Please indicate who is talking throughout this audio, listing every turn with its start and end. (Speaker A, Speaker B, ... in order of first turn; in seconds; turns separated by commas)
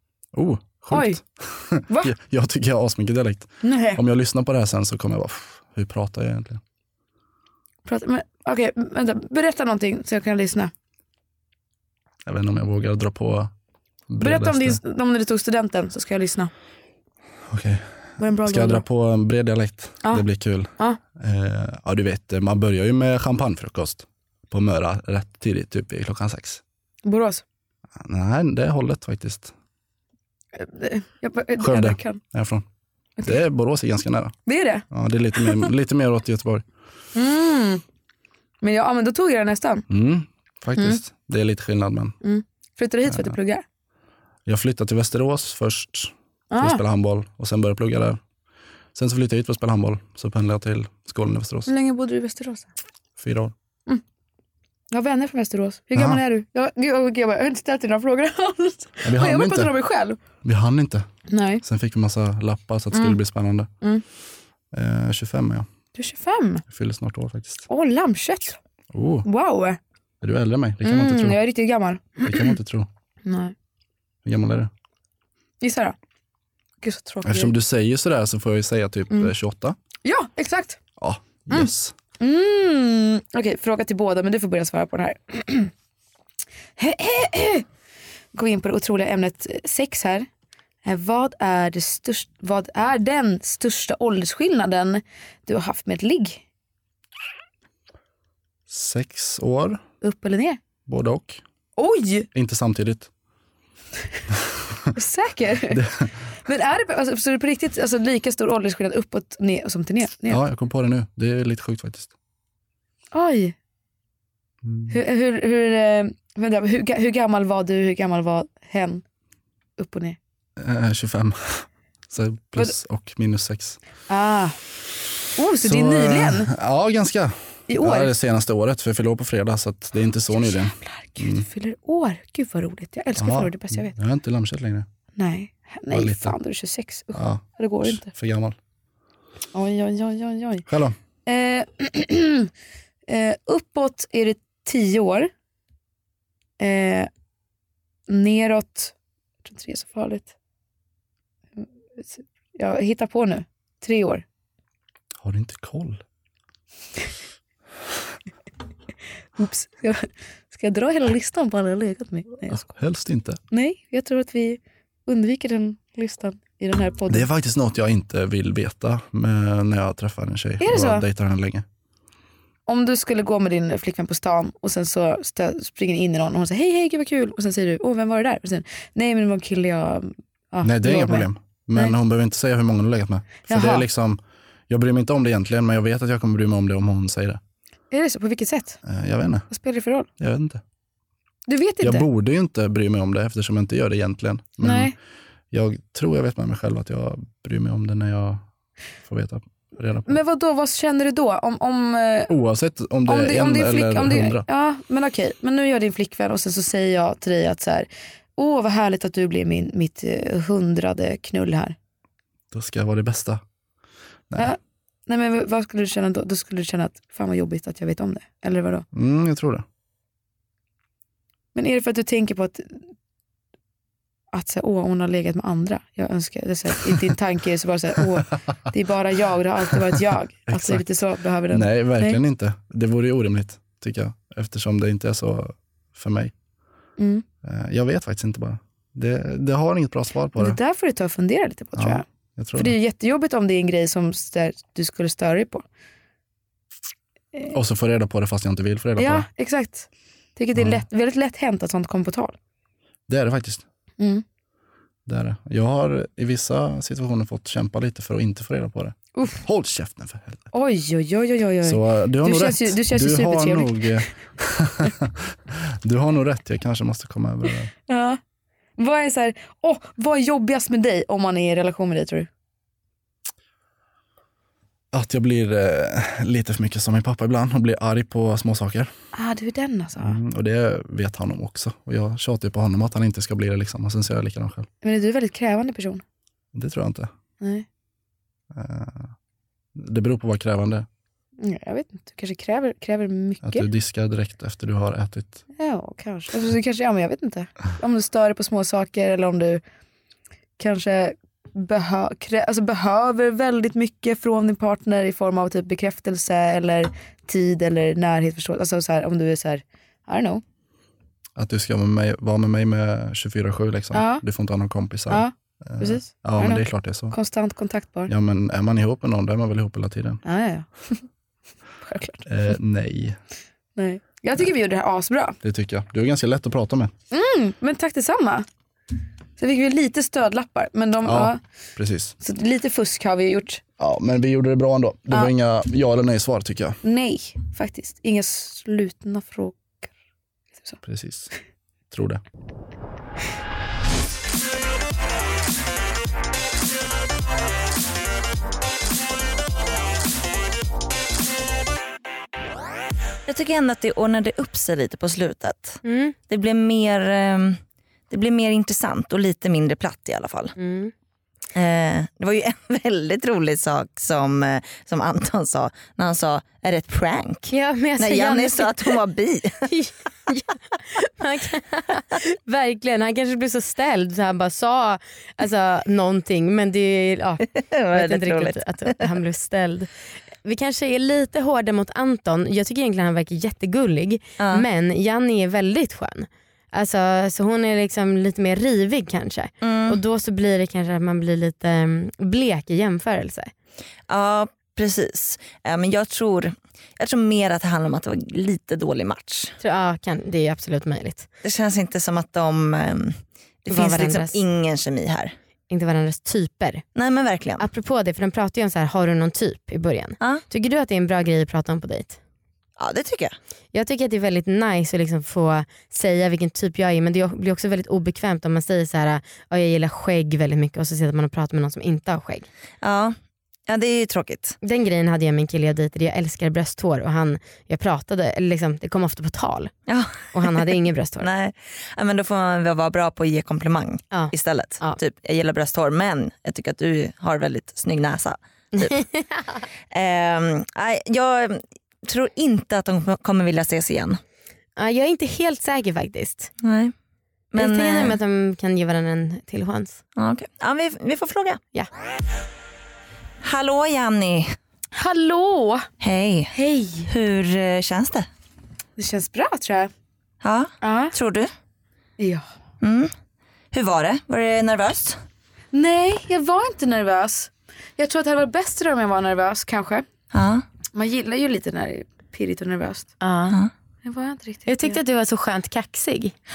Speaker A: 0.3-6.6, Speaker B: 0.9-1.2, Speaker B: 3.6-4.0, Speaker B: 7.8-10.7, Speaker A: 12.2-13.5, Speaker A: 14.1-14.8, Speaker B: 14.2-16.5, Speaker A: 17.5-26.6, Speaker B: 18.2-18.8, Speaker B: 27.0-27.4, Speaker A: 28.0-29.5, Speaker B: 30.6-32.2, Speaker A: 31.6-32.6, Speaker A: 33.2-34.4, Speaker B: 34.5-34.8, Speaker A: 34.9-36.6, Speaker B: 35.4-35.6, Speaker B: 37.1-37.8, Speaker B: 38.6-39.9, Speaker A: 39.9-42.1, Speaker B: 42.2-43.6, Speaker A: 43.1-43.4, Speaker A: 44.5-48.2, Speaker B: 46.5-46.8, Speaker A: 48.9-51.7, Speaker B: 51.7-52.7, Speaker A: 53.2-53.5, Speaker B: 54.9-60.2, Speaker A: 55.9-56.2, Speaker A: 59.0-59.7, Speaker A: 60.4-61.1, Speaker B: 61.3-61.6, Speaker A: 61.6-63.7, Speaker A: 64.7-65.7, Speaker B: 65.9-66.6, Speaker A: 66.7-67.7, Speaker B: 67.7-68.6, Speaker A: 68.9-69.3, Speaker B: 69.2-69.8, Speaker A: 70.2-71.4, Speaker B: 70.8-72.5, Speaker A: 72.2-72.9, Speaker B: 73.2-73.5, Speaker A: 74.2-74.7, Speaker B: 75.6-76.0, Speaker B: 76.8-77.5, Speaker A: 77.2-79.8, Speaker B: 80.0-80.8, Speaker A: 81.0-81.9, Speaker B: 82.2-85.7, Speaker B: 86.8-87.7, Speaker B: 88.3-90.3, Speaker B: 90.8-96.4, Speaker A: 98.7-99.8, Speaker B: 100.0-100.6, Speaker A: 100.8-101.4, Speaker B: 101.8-102.3, Speaker A: 102.3-103.1, Speaker B: 104.9-105.8, Speaker A: 105.7-106.1, Speaker B: 106.4-110.4, Speaker A: 110.3-112.1, Speaker B: 113.1-113.5, Speaker A: 114.6-115.0, Speaker B: 114.9-119.0, Speaker B: 119.8-120.2, Speaker A: 120.6-123.8, Speaker B: 124.1-124.6, Speaker B: 125.3-126.5, Speaker A: 125.6-131.5, Speaker B: 127.7-128.1, Speaker B: 130.3-133.9, Speaker A: 133.2-134.9, Speaker B: 135.2-138.1, Speaker A: 135.9-136.3, Speaker A: 137.1-138.6, Speaker B: 139.5-140.7, Speaker A: 140.7-141.0, Speaker B: 141.2-142.5, Speaker B: 143.1-145.3, Speaker B: 146.6-147.1, Speaker B: 148.1-148.9, Speaker B: 149.4-150.3, Speaker B: 151.6-154.2, Speaker A: 155.2-156.0, Speaker B: 159.4-162.7, Speaker A: 162.5-163.4, Speaker B: 163.5-167.3, Speaker A: 167.1-171.6, Speaker B: 170.6-171.0, Speaker B: 172.7-181.9, Speaker A: 180.6-187.4, Speaker B: 183.5-183.8, Speaker B: 187.9-188.8, Speaker A: 188.8-189.5, Speaker B: 189.5-190.1, Speaker A: 190.2-190.6, Speaker B: 191.5-192.1, Speaker A: 191.8-194.9, Speaker B: 194.6-194.9, Speaker A: 195.5-198.4, Speaker A: 199.0-200.2, Speaker B: 200.1-202.3, Speaker A: 202.3-204.4, Speaker B: 203.1-211.8, Speaker A: 212.5-213.4, Speaker B: 214.4-218.8, Speaker A: 218.9-219.6, Speaker B: 221.5-222.8, Speaker B: 224.3-232.2, Speaker A: 230.5-230.8, Speaker A: 231.5-236.3, Speaker B: 237.0-237.2, Speaker A: 237.4-240.6, Speaker B: 240.4-242.0, Speaker A: 241.7-242.7, Speaker B: 242.6-245.6, Speaker A: 247.5-249.2, Speaker B: 249.0-252.3, Speaker A: 250.5-250.8, Speaker A: 253.1-253.6, Speaker B: 254.0-254.2, Speaker A: 255.1-260.5, Speaker B: 260.5-264.0, Speaker A: 261.6-267.7, Speaker B: 267.9-268.2, Speaker B: 268.8-272.3, Speaker A: 274.9-278.9, Speaker B: 279.1-280.2, Speaker A: 280.0-284.7, Speaker B: 284.8-286.0, Speaker A: 286.5-287.1, Speaker B: 287.4-287.6, Speaker A: 288.5-289.1, Speaker A: 289.8-290.9, Speaker B: 291.4-293.7, Speaker A: 293.4-295.4, Speaker B: 295.6-299.6, Speaker B: 300.6-310.4, Speaker A: 311.4-317.1, Speaker B: 313.9-314.2, Speaker B: 315.1-318.1, Speaker A: 318.1-320.2, Speaker B: 320.2-321.0, Speaker B: 321.8-322.5, Speaker A: 322.3-323.2, Speaker B: 323.8-325.4, Speaker A: 325.4-326.9, Speaker B: 327.1-328.5, Speaker B: 329.4-331.4, Speaker A: 331.0-332.1, Speaker B: 332.2-333.6, Speaker A: 333.8-336.8, Speaker B: 336.8-339.9, Speaker A: 340.8-341.3, Speaker A: 341.9-342.2, Speaker C: 353.2-360.5, Speaker D: 355.8-356.1, Speaker D: 360.6-360.9, Speaker C: 361.5-369.7, Speaker D: 367.5-369.0, Speaker D: 369.6-379.9, Speaker C: 377.7-379.1, Speaker D: 380.4-393.5, Speaker C: 384.4-384.6, Speaker C: 389.6-390.0, Speaker C: 394.1-399.5, Speaker D: 399.6-401.3, Speaker C: 401.4-405.3, Speaker D: 403.7-404.4, Speaker D: 405.7-406.8, Speaker C: 406.9-407.6, Speaker D: 407.6-412.2, Speaker C: 412.8-413.4, Speaker D: 413.7-422.5, Speaker C: 422.8-423.1, Speaker C: 423.7-424.6, Speaker D: 424.6-429.7, Speaker C: 429.9-439.0, Speaker D: 430.3-431.3, Speaker D: 434.1-435.0, Speaker D: 438.8-439.2, Speaker C: 439.9-444.2, Speaker D: 444.8-446.5, Speaker C: 446.6-446.9, Speaker C: 447.5-448.1, Speaker D: 447.6-450.0, Speaker C: 450.1-451.6, Speaker C: 453.4-454.5, Speaker B: 454.9-455.9, Speaker C: 456.0-456.5, Speaker B: 456.5-457.1, Speaker C: 457.1-458.3, Speaker B: 459.0-459.9, Speaker C: 460.4-461.5, Speaker B: 460.8-461.1, Speaker B: 462.2-462.4, Speaker C: 462.8-463.1, Speaker C: 463.7-465.2, Speaker B: 465.7-470.1, Speaker C: 470.3-470.6, Speaker B: 470.9-473.1, Speaker D: 473.2-473.6, Speaker B: 474.0-475.0, Speaker D: 474.6-476.4